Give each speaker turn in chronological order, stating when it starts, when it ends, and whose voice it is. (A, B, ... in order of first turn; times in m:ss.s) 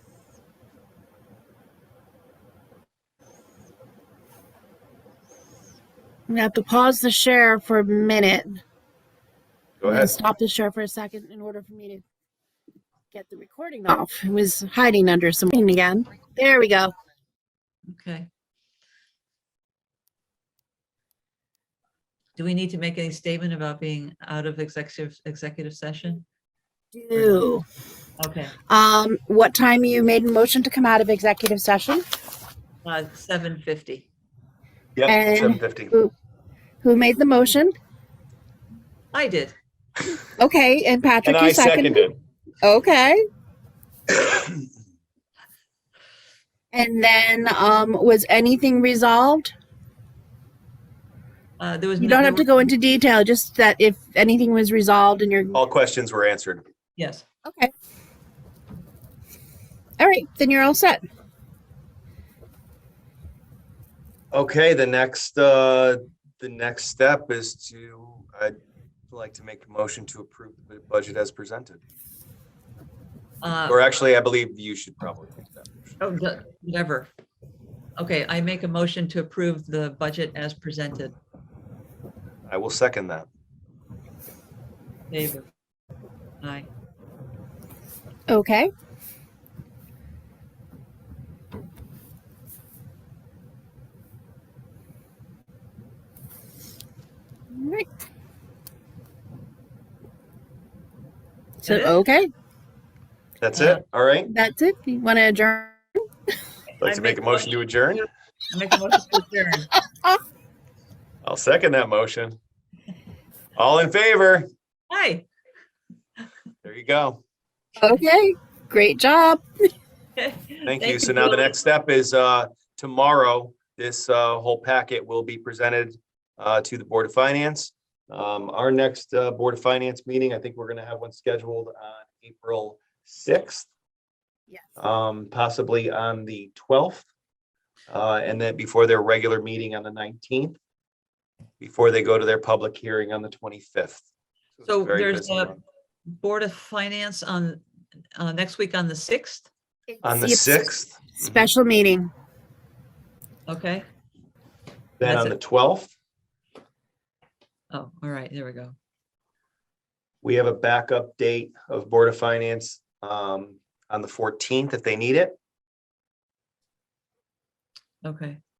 0:06.3-0:08.6 A
0:09.8-0:10.2 B
0:09.8-0:12.0 A
0:13.1-0:16.9 A
0:17.9-0:18.3 C
0:22.4-0:26.2 C
0:26.9-0:27.6 A
0:27.1-0:27.5 C
0:28.2-0:28.5 C
0:28.7-0:32.0 A
0:32.8-0:34.1 C
0:35.0-0:35.9 B
0:35.0-0:36.1 A
0:36.8-0:37.7 A
0:39.1-0:39.5 C
0:40.4-0:42.1 A
0:41.2-0:42.2 B
0:42.6-0:43.2 A
0:44.1-0:44.5 B
0:46.7-0:49.5 A
0:51.6-0:52.5 C
0:52.0-0:55.6 A
0:55.5-0:56.6 B
0:57.0-0:57.2 C
0:57.4-0:57.7 A
1:00.0-1:01.0 A
1:04.3-1:08.6 B
1:09.1-1:11.8 B
1:13.4-1:13.8 C
1:13.7-1:16.0 B
1:16.0-1:17.1 C
1:18.0-1:21.1 C
1:22.5-1:23.3 B
1:25.1-1:25.4 C
1:26.4-1:26.7 C
1:28.3-1:28.7 A
1:37.5-1:37.9 A
1:41.6-1:42.3 A
1:41.6-1:42.0 C
1:43.4-1:44.3 B
1:43.5-1:43.8 C
1:44.3-1:45.8 A
1:46.8-1:47.8 C
1:46.8-1:48.0 B
1:48.5-1:49.7 C
1:51.2-1:52.4 B
1:53.6-1:54.5 B
1:54.9-1:55.2 C
1:56.6-1:57.2 B
1:57.8-1:59.4 A
2:00.2-2:01.5 C
2:00.7-2:13.7 B
2:14.8-2:17.1 B
2:17.9-2:20.6 B
2:21.6-2:24.0 B
2:24.6-2:25.6 B
2:24.6-2:25.5 C
2:26.2-2:27.6 C
2:28.2-2:29.5 C
2:29.9-2:32.1 A
2:30.0-2:31.5 B
2:33.5-2:33.8 C
2:35.0-2:35.9 B
2:35.0-2:35.4 C
2:37.7-2:38.7 C
2:40.2-2:45.4 B
2:48.0-2:48.4 C